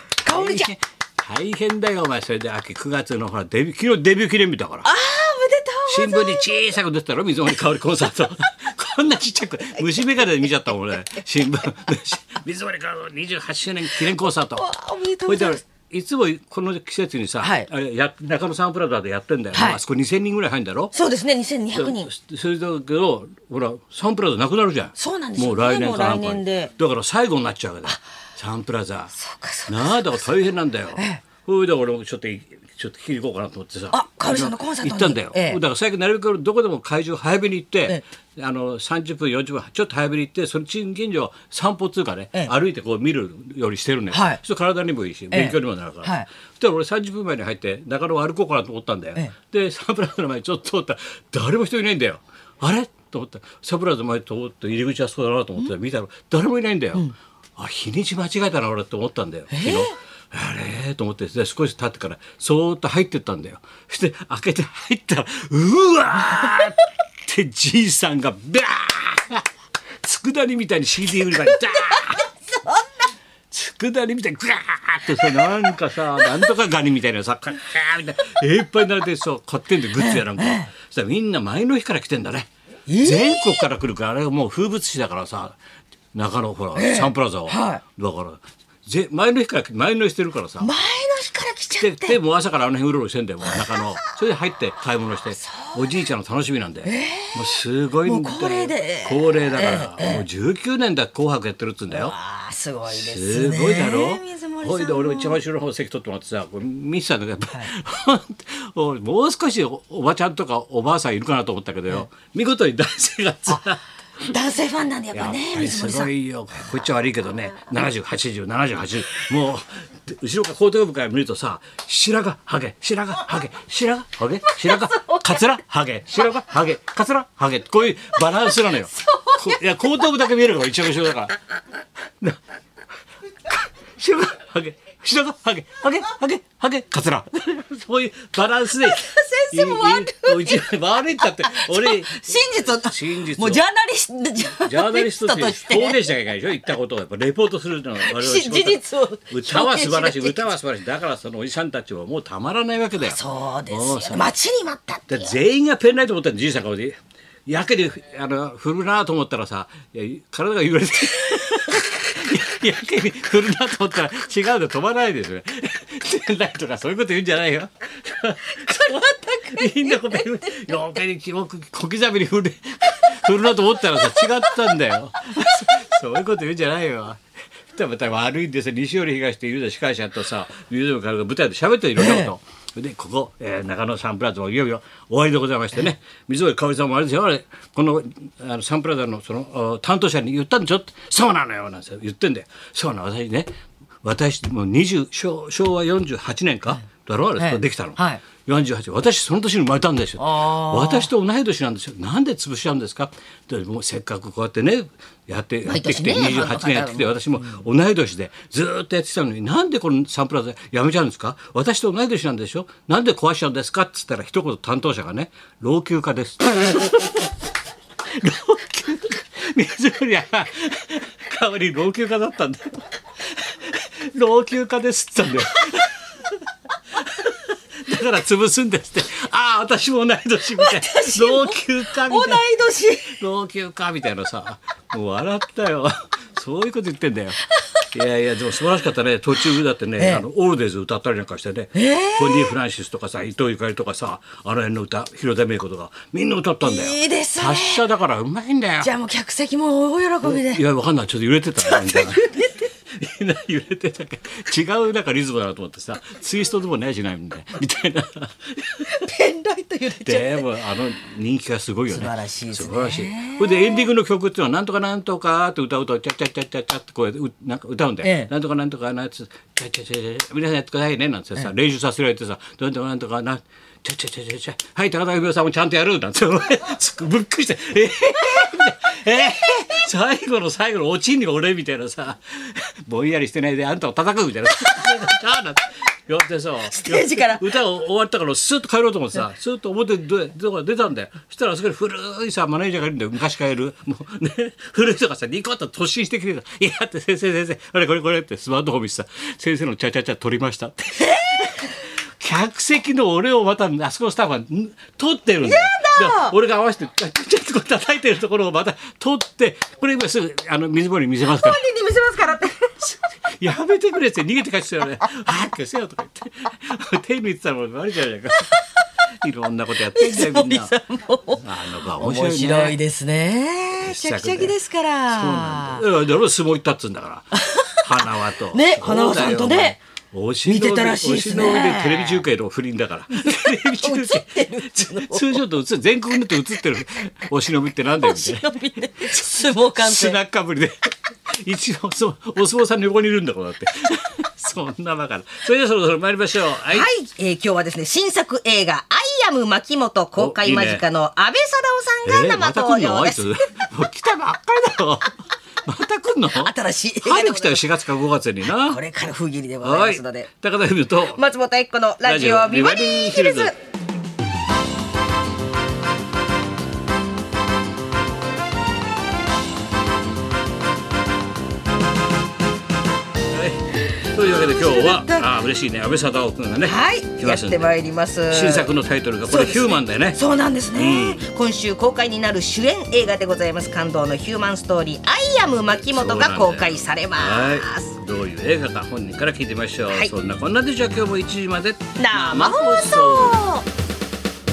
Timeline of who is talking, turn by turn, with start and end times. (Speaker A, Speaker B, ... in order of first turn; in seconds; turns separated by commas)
Speaker A: 0.2-0.7, Speaker B: 0.3-4.9, Speaker A: 4.8-6.6, Speaker B: 5.9-14.7, Speaker A: 14.5-15.6, Speaker B: 15.3-20.9, Speaker A: 17.4-17.7, Speaker A: 19.5-19.8, Speaker A: 20.9-22.1, Speaker B: 21.7-29.1, Speaker A: 25.0-26.7, Speaker A: 29.2-30.2, Speaker B: 29.7-69.5, Speaker A: 31.0-31.2, Speaker A: 33.9-35.6, Speaker A: 44.1-44.4, Speaker A: 45.3-46.3, Speaker A: 59.5-59.9, Speaker B: 70.0-72.3, Speaker B: 73.5-85.6, Speaker A: 80.0-80.7, Speaker A: 82.9-83.7, Speaker B: 86.1-90.7, Speaker A: 86.8-87.8, Speaker A: 90.6-92.2, Speaker B: 91.8-102.2, Speaker A: 93.4-94.0, Speaker A: 95.5-95.8, Speaker A: 96.8-100.3, Speaker A: 101.9-105.4, Speaker B: 102.9-114.3, Speaker A: 114.3-116.1, Speaker B: 115.1-131.4, Speaker A: 124.7-125.5, Speaker A: 128.5-130.1, Speaker B: 134.0-143.6, Speaker A: 138.8-146.1, Speaker B: 144.4-153.2, Speaker A: 148.0-150.5, Speaker A: 153.0-155.4, Speaker B: 153.7-154.3, Speaker B: 155.1-177.2, Speaker A: 168.5-170.9, Speaker A: 174.0-174.4, Speaker B: 177.7-193.5, Speaker A: 182.0-182.3, Speaker B: 194.0-217.3, Speaker A: 197.4-198.2, Speaker A: 200.2-201.1, Speaker A: 205.6-207.6, Speaker B: 218.1-226.0, Speaker B: 227.0-232.5, Speaker A: 230.6-233.2, Speaker B: 233.1-248.9, Speaker A: 240.0-240.2, Speaker A: 241.8-242.6, Speaker A: 246.6-247.8, Speaker A: 248.8-250.6, Speaker B: 250.2-258.9, Speaker A: 251.6-252.7, Speaker A: 258.9-260.5, Speaker B: 260.0-311.6, Speaker A: 261.9-263.9, Speaker A: 268.0-268.3, Speaker A: 286.6-287.5, Speaker A: 305.4-306.4, Speaker A: 311.3-312.7, Speaker B: 312.8-318.6, Speaker B: 319.2-320.7, Speaker A: 319.9-325.9, Speaker B: 321.4-322.8, Speaker B: 323.8-324.5, Speaker B: 325.1-346.9, Speaker A: 328.5-329.8, Speaker A: 330.5-332.2, Speaker A: 333.1-335.4, Speaker A: 338.0-340.2, Speaker A: 346.7-353.3, Speaker B: 350.1-350.9, Speaker B: 352.1-358.8, Speaker A: 356.4-357.7, Speaker A: 358.5-360.3, Speaker B: 359.6-361.2, Speaker A: 361.1-363.6, Speaker B: 362.0-363.5, Speaker B: 373.3-377.7, Speaker A: 374.2-375.2, Speaker A: 376.6-378.7, Speaker B: 378.3-380.2, Speaker A: 379.2-388.0, Speaker B: 380.7-381.2, Speaker B: 385.7-393.4, Speaker A: 392.0-393.6